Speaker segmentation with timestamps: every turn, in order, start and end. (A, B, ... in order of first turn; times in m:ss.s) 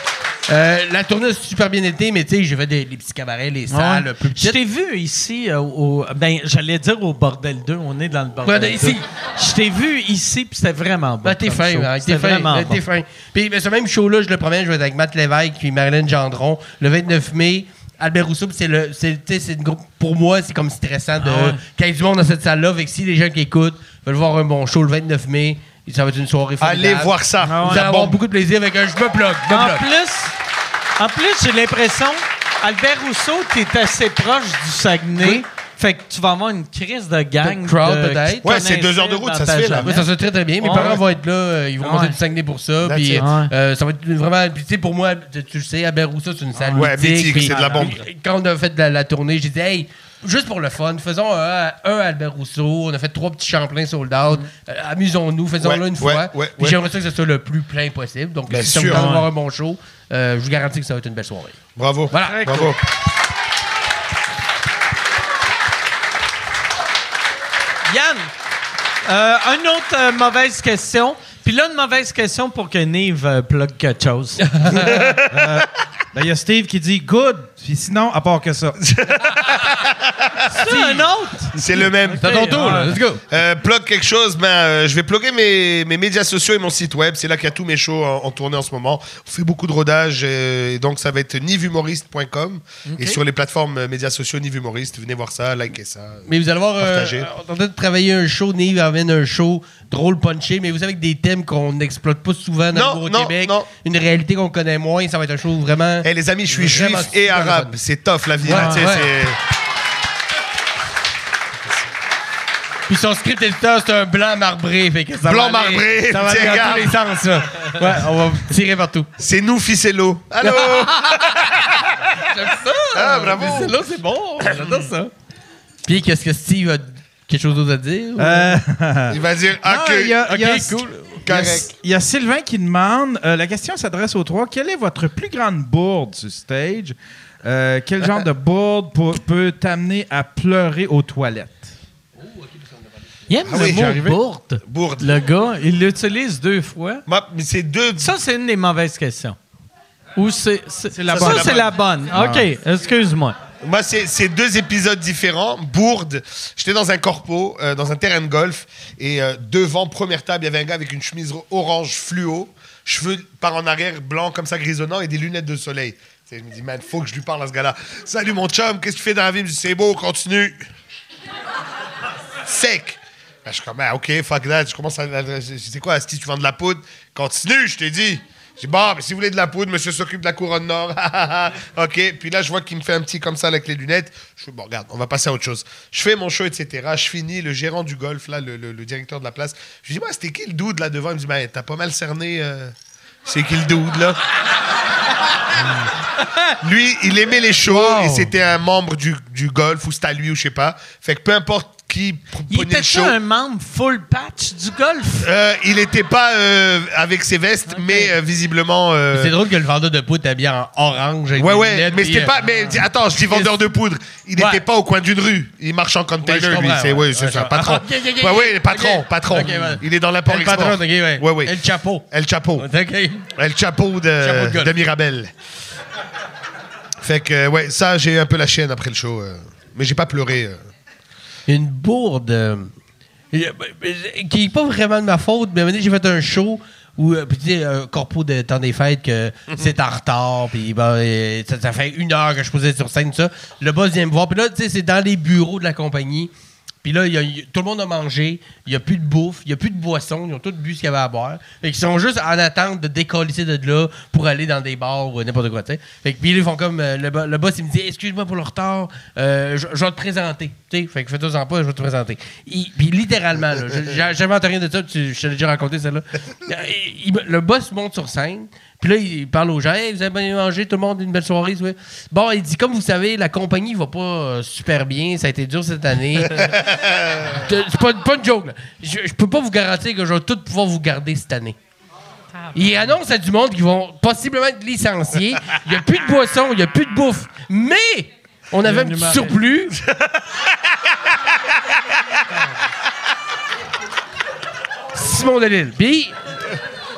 0:00.5-0:04.6 A
0:03.7-0:12.8 B
0:08.4-0:09.0 A
0:11.2-0:29.8 A
0:21.2-0:21.6 B
0:26.6-0:28.2 C
0:27.4-0:27.8 B
0:29.5-0:30.3 B
0:31.0-0:40.1 B
0:35.2-0:35.4 A
0:37.4-0:38.5 A
0:38.4-0:39.9 C
0:39.8-1:01.6 A
0:40.6-0:41.0 B
0:41.8-0:42.2 B
0:42.8-0:43.3 C
0:43.2-0:43.5 B
0:46.6-0:48.0 B
0:46.7-0:48.0 C
0:55.6-0:56.8 C
0:58.5-0:59.0 C
0:58.9-0:59.2 B
1:01.8-1:02.8 C
1:02.1-1:02.7 A
1:02.1-1:02.7 B
1:07.9-1:08.3 B
1:09.0-1:14.6 B
1:14.4-1:15.2 A
1:14.6-1:15.6 C
1:15.3-1:18.8 D
1:18.8-1:20.7 C
1:20.5-1:22.9 B
1:20.6-1:21.1 A
1:21.5-1:22.5 C
1:22.2-1:23.2 A
1:23.3-1:36.3 C
1:32.8-1:33.2 B
1:36.3-1:47.7 A
1:36.8-1:37.3 C
1:42.7-1:43.7 C
1:46.0-1:49.4 C
1:48.4-1:49.1 A
1:48.4-1:48.8 B
1:52.9-1:59.1 A
1:55.2-1:57.0 C
1:59.2-2:02.2 C
2:00.4-2:01.6 A
2:02.2-2:05.1 A
2:02.9-2:03.8 C
2:04.4-2:04.9 C
2:05.8-2:08.6 A
2:08.2-2:21.7 D
2:09.1-2:10.2 C
2:10.2-2:11.2 A
2:11.2-2:11.7 C
2:22.2-2:22.6 A
2:23.3-2:27.0 B
2:23.4-2:25.2 C
2:27.0-2:28.1 C
2:28.0-2:29.4 B
2:30.2-2:33.4 B
2:30.9-2:32.5 D
2:31.1-2:31.8 C
2:33.6-2:50.7 C
2:52.4-3:12.7 C
3:13.3-3:14.2 C
3:16.6-3:23.2 C
3:17.7-3:18.2 B
3:22.5-3:25.3 B
3:25.2-3:29.3 C
3:27.7-3:28.1 B
3:29.1-3:33.6 A
3:31.4-3:41.5 C
3:34.4-3:34.6 A
3:36.2-3:43.2 A
3:42.1-3:42.7 C
3:43.3-3:45.3 C
3:44.2-3:44.7 A
3:47.0-3:50.7 C
3:51.5-3:52.7 A
3:53.3-4:06.3 A
4:06.8-4:36.6 A
4:36.3-4:37.4 C
4:37.2-4:41.6 A
4:42.5-4:49.8 A
4:48.6-4:49.3 B
4:54.9-4:56.2 A